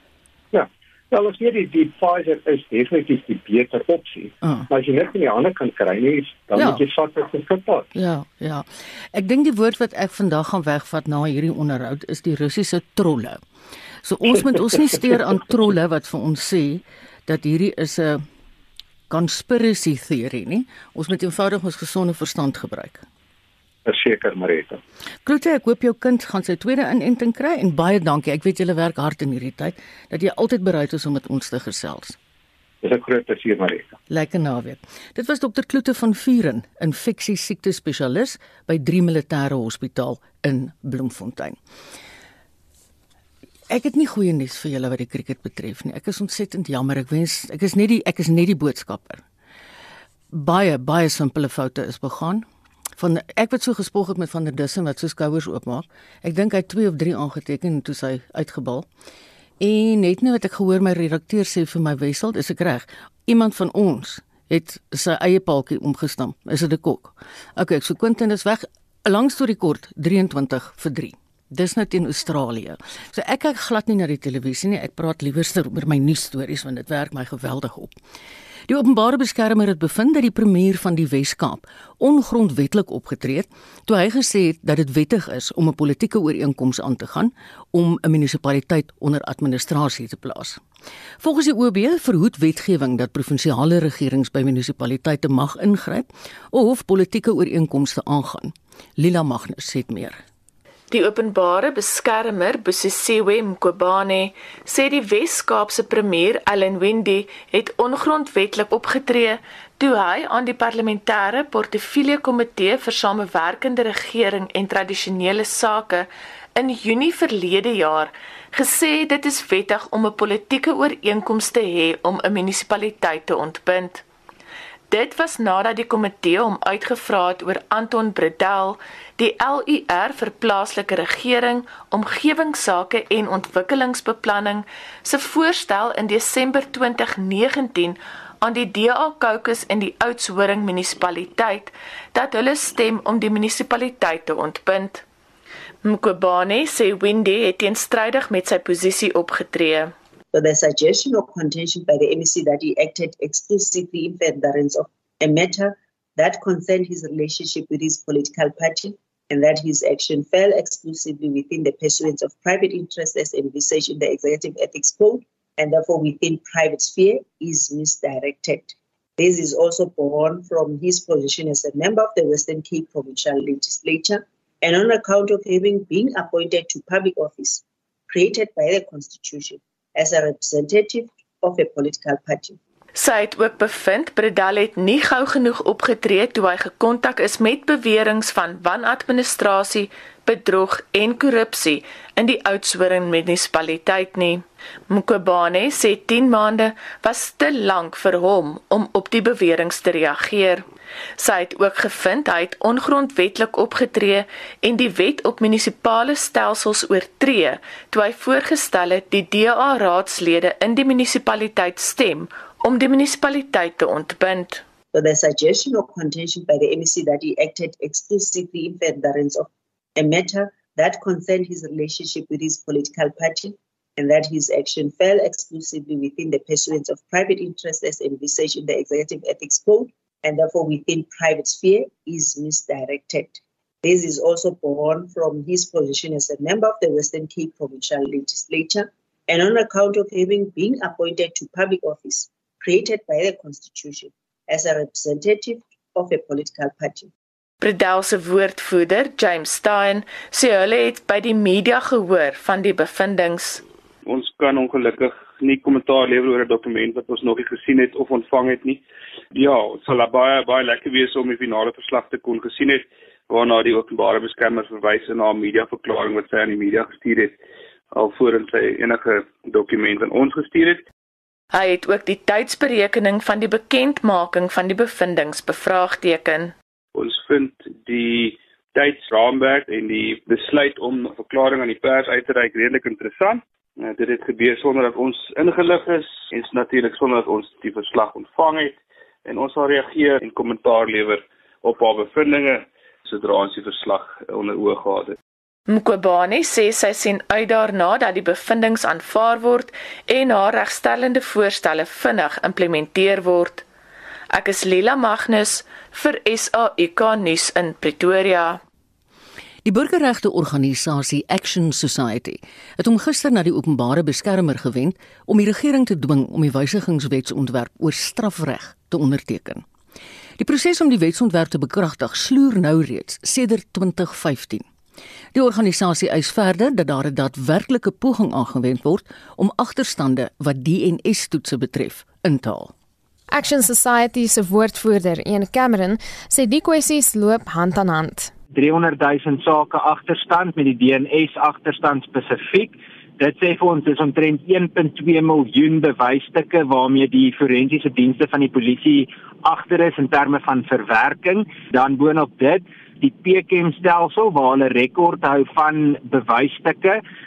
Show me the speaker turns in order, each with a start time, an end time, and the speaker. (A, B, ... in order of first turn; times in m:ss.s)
0:00.5-0:07.9 A
0:04.4-0:04.7 B
0:06.5-0:06.8 B
0:07.9-0:13.4 B
0:14.0-0:18.2 B
0:19.1-0:23.0 B
0:23.8-0:24.8 A
0:25.2-0:32.2 B
0:32.8-0:33.9 A
0:34.1-0:41.6 B
0:43.7-0:49.2 B
0:50.3-0:52.4 B
0:53.0-0:58.8 B
0:59.6-1:17.9 B
1:18.7-1:30.6 B
1:31.2-1:40.2 B
1:40.9-2:04.0 C
2:04.9-2:25.0 C
2:25.8-2:29.9 C
2:30.3-3:02.6 D
3:03.0-3:20.7 C
3:21.2-3:34.6 C
3:34.9-4:07.1 D
4:07.6-4:13.6 C
4:14.0-4:27.4 E
4:27.9-4:30.9 E
4:31.5-4:36.5 C
4:36.9-4:55.2 E
4:55.7-5:03.6 C
5:04.3-5:08.6 C
5:09.6-5:19.6 B
5:20.4-5:24.6 B
5:25.3-5:32.7 B
5:33.3-5:38.3 F
5:38.5-5:57.0 G